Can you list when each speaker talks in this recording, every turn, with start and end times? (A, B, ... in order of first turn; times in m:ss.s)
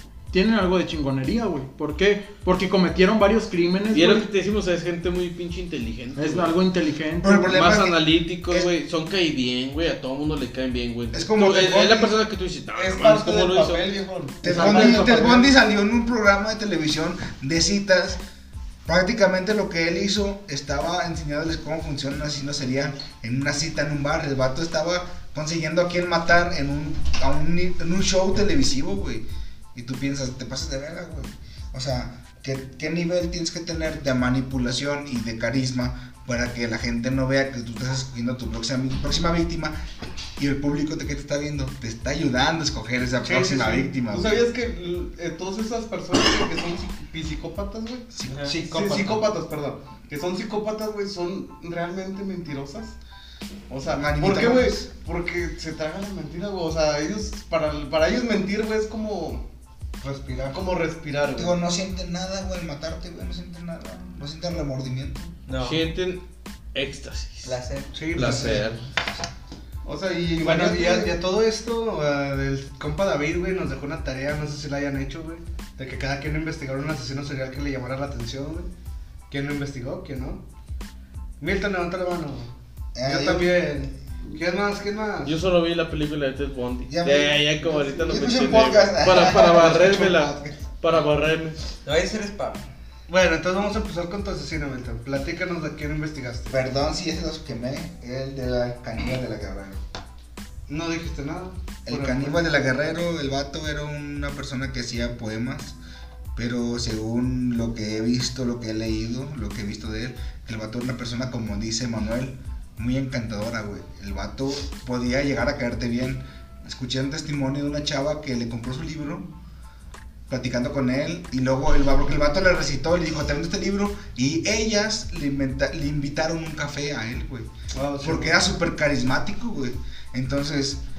0:00.3-0:04.3 A
0:03.9-0:06.5 B
0:06.2-0:07.6 A
0:07.2-0:08.7 C
0:07.5-0:13.8 B
0:11.1-0:12.2 C
0:12.7-0:15.4 D
0:14.4-0:18.2 C
0:14.4-0:15.5 A
0:18.9-0:39.8 C
0:40.4-0:44.4 C
0:43.2-0:44.0 E
0:44.1-0:48.1 D
0:48.1-0:48.4 C
0:48.3-0:48.6 F
0:48.5-0:49.3 E
0:48.6-0:53.0 D
0:53.7-0:59.4 D
0:53.9-0:54.9 C
1:00.0-1:00.6 E
1:00.5-1:01.6 D
1:01.3-1:05.3 C
1:05.5-1:05.8 F
1:05.6-1:06.2 B
1:06.7-1:07.6 B
1:07.4-1:07.9 F
1:07.9-1:08.6 E
1:08.1-1:08.8 B
1:08.2-1:08.7 C
1:09.8-1:11.1 D
1:10.4-1:18.7 E
1:19.3-1:20.4 E
1:21.4-1:22.5 E
1:23.0-1:23.6 C
1:23.0-1:25.4 E
1:25.2-1:31.6 B
1:26.9-1:30.7 C
1:31.8-1:32.6 F
1:33.1-1:36.6 E
1:36.5-1:39.8 C
1:40.7-1:42.4 E
1:41.9-1:45.8 C
1:46.4-1:59.3 C
2:00.3-2:07.5 C
2:07.7-2:08.4 E
2:08.0-2:10.8 C